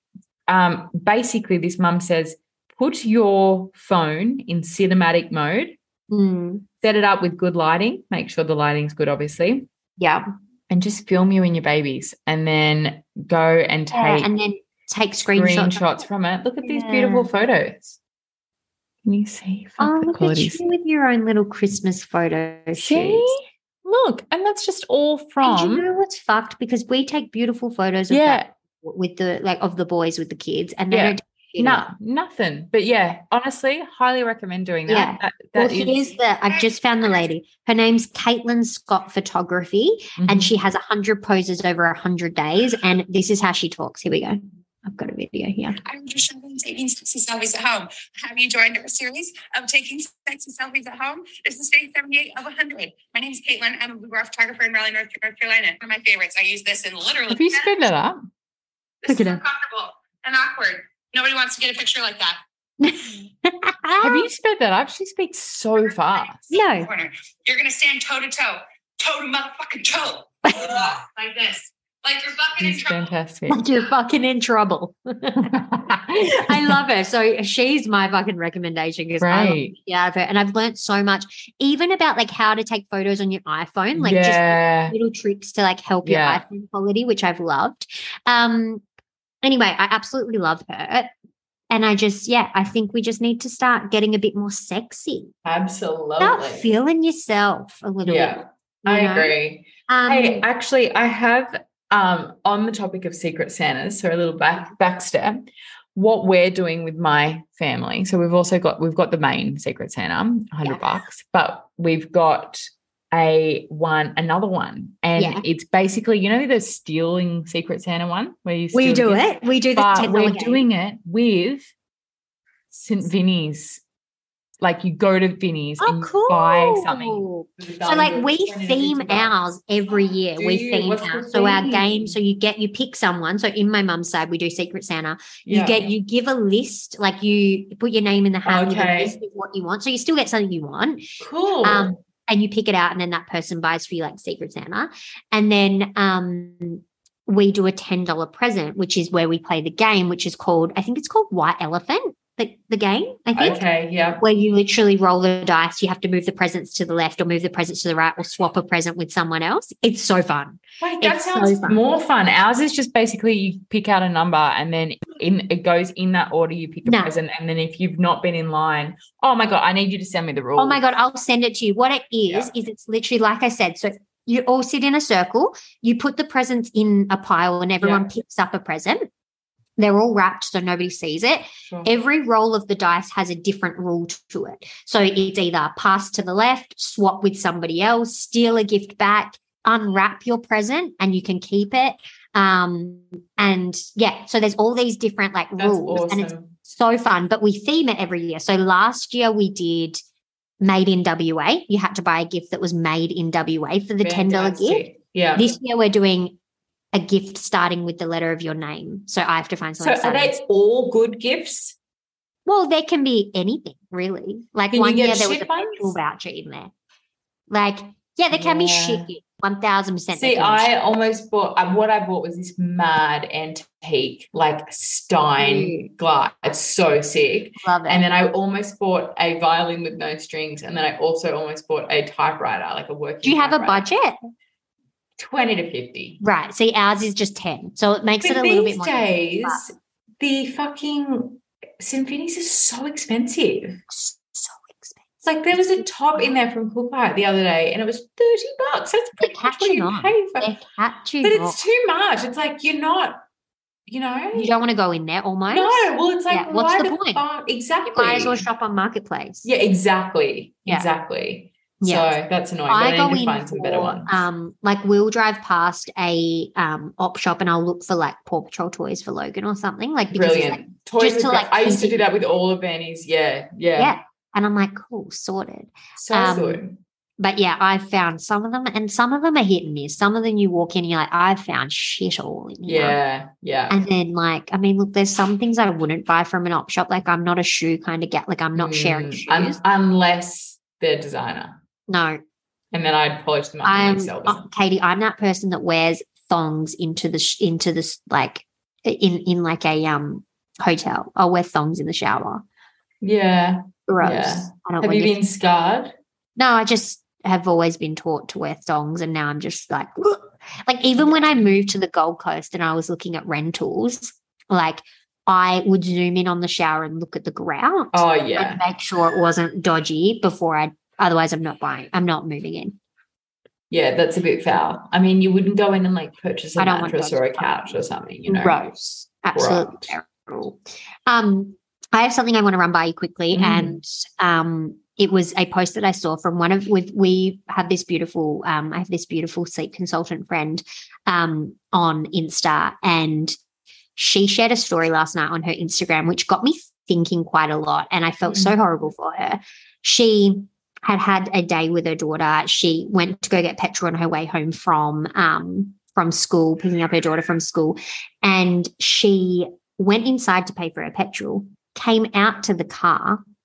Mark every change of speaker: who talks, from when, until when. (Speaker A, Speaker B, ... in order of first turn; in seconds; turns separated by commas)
Speaker A: 0.5-5.8, Speaker B: 6.1-6.7, Speaker A: 6.8-9.7, Speaker B: 10.0-10.3, Speaker A: 10.7-14.3, Speaker B: 13.9-16.0, Speaker A: 15.3-18.0, Speaker B: 16.6-17.3, Speaker A: 19.1-20.6, Speaker B: 19.8-23.4, Speaker A: 22.8-25.9, Speaker B: 25.4-31.9, Speaker A: 28.1-28.5, Speaker A: 30.9-36.2, Speaker B: 34.9-45.8, Speaker A: 40.2-40.5, Speaker C: 45.9-57.9, Speaker A: 57.3-58.2, Speaker C: 59.0-62.4, Speaker B: 59.1-59.4, Speaker B: 62.8-64.3, Speaker A: 64.0-66.5, Speaker C: 65.9-73.1, Speaker B: 66.5-66.9, Speaker B: 70.4-70.8, Speaker A: 72.6-73.6, Speaker B: 73.5-75.5, Speaker A: 75.4-76.8, Speaker B: 76.2-88.8, Speaker A: 79.2-79.8, Speaker A: 84.0-84.9, Speaker A: 86.0-86.4, Speaker B: 89.4-91.1, Speaker B: 91.7-95.3, Speaker A: 95.4-96.7, Speaker B: 96.2-99.4, Speaker A: 98.0-121.7, Speaker B: 99.9-100.4, Speaker B: 115.2-115.4, Speaker B: 118.7-120.7, Speaker A: 122.7-123.8, Speaker A: 124.6-129.4, Speaker B: 125.8-141.0, Speaker A: 130.4-132.2, Speaker A: 135.4-135.9, Speaker A: 138.4-139.1, Speaker A: 141.2-141.9, Speaker B: 141.6-153.6, Speaker A: 153.3-154.2, Speaker B: 154.2-161.8, Speaker A: 160.8-170.8, Speaker B: 166.8-167.1, Speaker B: 170.6-179.1, Speaker A: 177.8-178.1, Speaker B: 179.8-200.0, Speaker A: 195.6-196.5, Speaker B: 200.6-206.4, Speaker A: 204.0-205.5, Speaker B: 206.9-210.3, Speaker A: 209.8-211.8, Speaker B: 212.4-216.7, Speaker A: 214.7-216.0, Speaker B: 217.5-220.7, Speaker A: 218.3-219.1, Speaker A: 220.1-233.8, Speaker B: 225.4-225.8, Speaker B: 227.6-228.1, Speaker B: 233.2-234.2, Speaker A: 235.2-236.2, Speaker B: 236.2-239.6, Speaker A: 238.2-243.8, Speaker B: 243.9-246.3, Speaker A: 245.2-250.5, Speaker B: 249.2-251.6, Speaker A: 251.2-253.2, Speaker A: 253.9-254.5, Speaker B: 254.3-257.2, Speaker A: 255.5-258.4, Speaker B: 257.9-259.5, Speaker A: 259.4-264.2, Speaker B: 261.8-262.1, Speaker B: 262.7-272.0, Speaker A: 270.1-273.9, Speaker B: 273.8-276.6, Speaker A: 276.0-276.8, Speaker B: 277.2-283.0, Speaker A: 282.6-283.8, Speaker B: 283.7-289.6, Speaker A: 288.5-291.6, Speaker B: 291.9-292.2, Speaker A: 292.7-294.5, Speaker B: 293.6-302.4, Speaker A: 303.0-305.9, Speaker B: 303.9-305.2, Speaker B: 306.4-322.8, Speaker A: 311.0-311.5, Speaker A: 317.9-318.6, Speaker A: 323.7-328.6, Speaker B: 326.6-327.7, Speaker B: 328.3-343.4, Speaker A: 329.3-329.9, Speaker A: 333.3-333.8, Speaker B: 344.0-363.2, Speaker A: 348.2-348.6